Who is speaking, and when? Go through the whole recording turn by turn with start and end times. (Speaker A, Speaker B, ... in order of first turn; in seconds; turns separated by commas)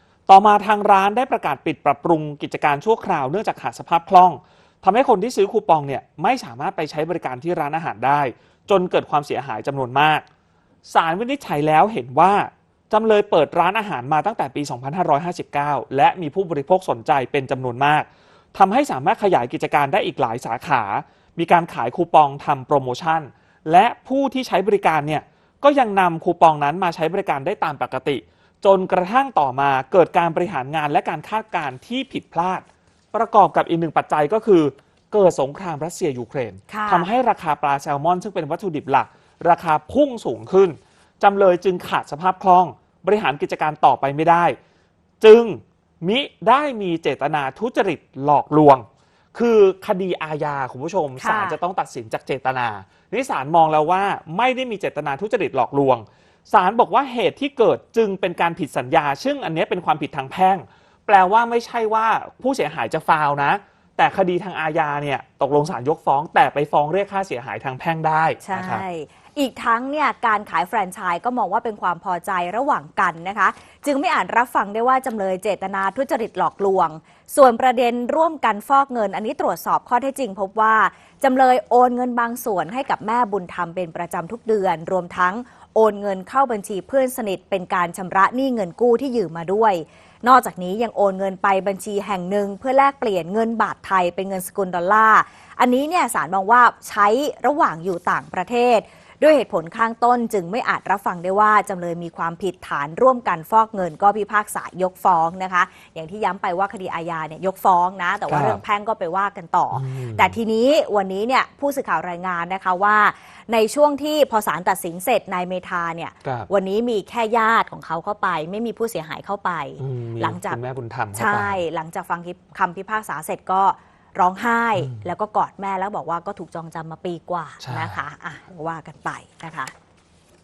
Speaker A: 0.3-10.2, Speaker A: 10.8-44.6, Speaker B: 36.7-37.1, Speaker A: 45.2-68.8, Speaker B: 51.2-51.6, Speaker B: 68.4-120.6, Speaker A: 108.3-108.6, Speaker A: 109.7-110.4, Speaker A: 119.8-121.6, Speaker B: 121.1-129.7, Speaker A: 124.8-125.1, Speaker A: 127.6-128.0